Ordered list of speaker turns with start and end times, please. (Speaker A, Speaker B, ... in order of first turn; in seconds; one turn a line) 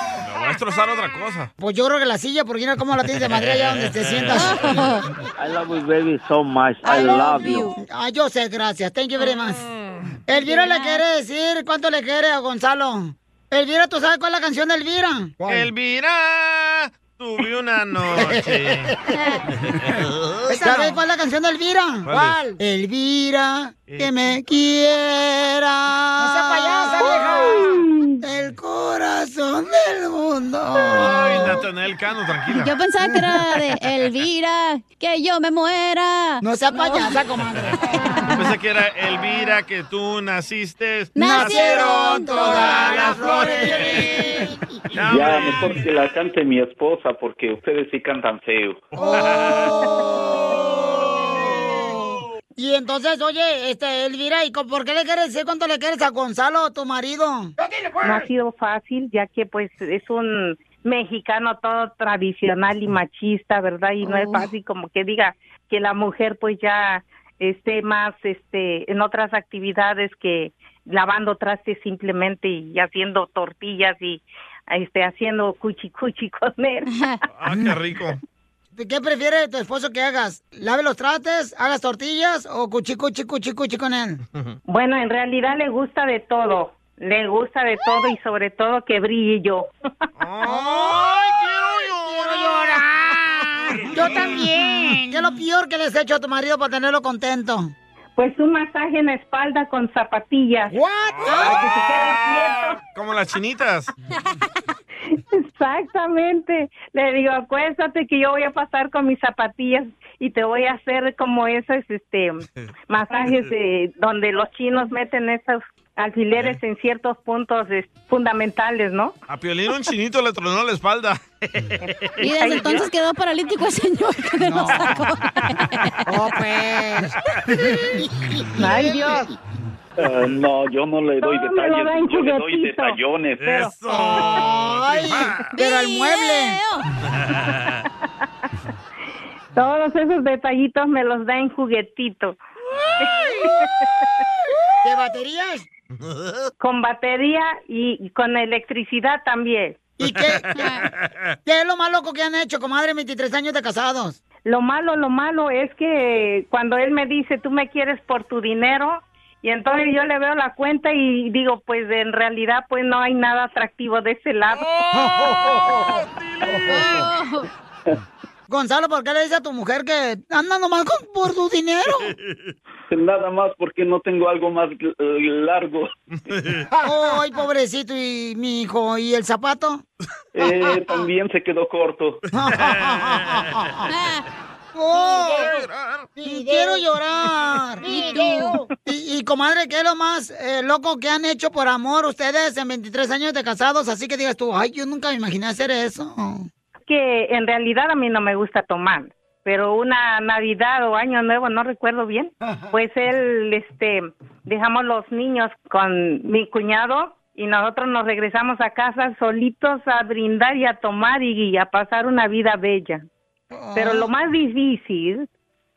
Speaker A: 0.2-1.5
Speaker B: 1.6-4.9
Speaker C: 4.3-5.0
Speaker D: 6.3-7.5
Speaker C: 6.8-7.8
Speaker B: 7.8-9.7
Speaker A: 9.2-10.1
Speaker B: 10.3-15.7
Speaker C: 10.4-11.0
Speaker A: 15.5-19.0
Speaker B: 18.1-19.4
Speaker A: 19.7-20.5
Speaker B: 20.5-31.6
Speaker A: 22.1-22.4
Speaker A: 23.9-24.4
Speaker A: 30.9-32.7
Speaker C: 32.5-37.2
Speaker B: 36.4-37.8
Speaker C: 37.9-38.4
Speaker A: 38.3-44.2
Speaker C: 41.1-43.4
Speaker B: 41.2-44.5
Speaker A: 44.9-45.8
Speaker D: 45.1-48.8
Speaker A: 49.0-49.7
Speaker B: 49.0-57.5
Speaker E: 58.0-76.9
Speaker C: 64.1-64.4
Speaker C: 76.9-77.2
Speaker A: 77.3-78.2
Speaker B: 78.8-84.2
Speaker E: 84.7-89.7
Speaker A: 90.2-92.8
Speaker B: 90.4-91.2
Speaker B: 92.0-97.7
Speaker A: 93.8-94.3
Speaker E: 98.2-100.8
Speaker B: 100.7-101.6
Speaker E: 101.3-102.8
Speaker A: 102.9-103.9
Speaker E: 105.2-119.2
Speaker A: 119.3-121.9
Speaker E: 121.9-122.9
Speaker C: 122.2-126.3
Speaker B: 124.4-125.0
Speaker B: 126.1-127.8
Speaker E: 128.6-129.3
Speaker B: 128.6-129.2
Speaker D: 130.0-133.4
Speaker E: 131.2-133.0
Speaker A: 133.4-135.4
Speaker B: 133.9-136.6
Speaker C: 135.5-136.9
Speaker A: 137.1-137.8
Speaker E: 139.5-142.4
Speaker E: 143.0-143.7
Speaker B: 144.8-145.7
Speaker E: 146.6-149.9
Speaker B: 150.0-150.7
Speaker C: 150.6-150.9
Speaker B: 151.5-154.2
Speaker E: 154.5-164.7
Speaker A: 164.7-166.9
Speaker B: 164.9-165.9
Speaker B: 166.4-167.1
Speaker C: 166.7-167.5
Speaker B: 168.5-172.2
Speaker A: 172.1-172.5
Speaker D: 172.9-175.9
Speaker A: 176.3-176.7
Speaker B: 176.8-179.8
Speaker D: 180.3-182.2
Speaker B: 180.4-180.8
Speaker B: 182.3-183.9
Speaker A: 182.5-183.4
Speaker C: 183.9-184.2
Speaker B: 184.7-185.6
Speaker A: 185.2-186.1
Speaker B: 186.2-196.5
Speaker C: 186.3-186.6
Speaker C: 187.8-188.6
Speaker E: 196.9-213.0
Speaker B: 213.5-214.1
Speaker E: 213.7-215.3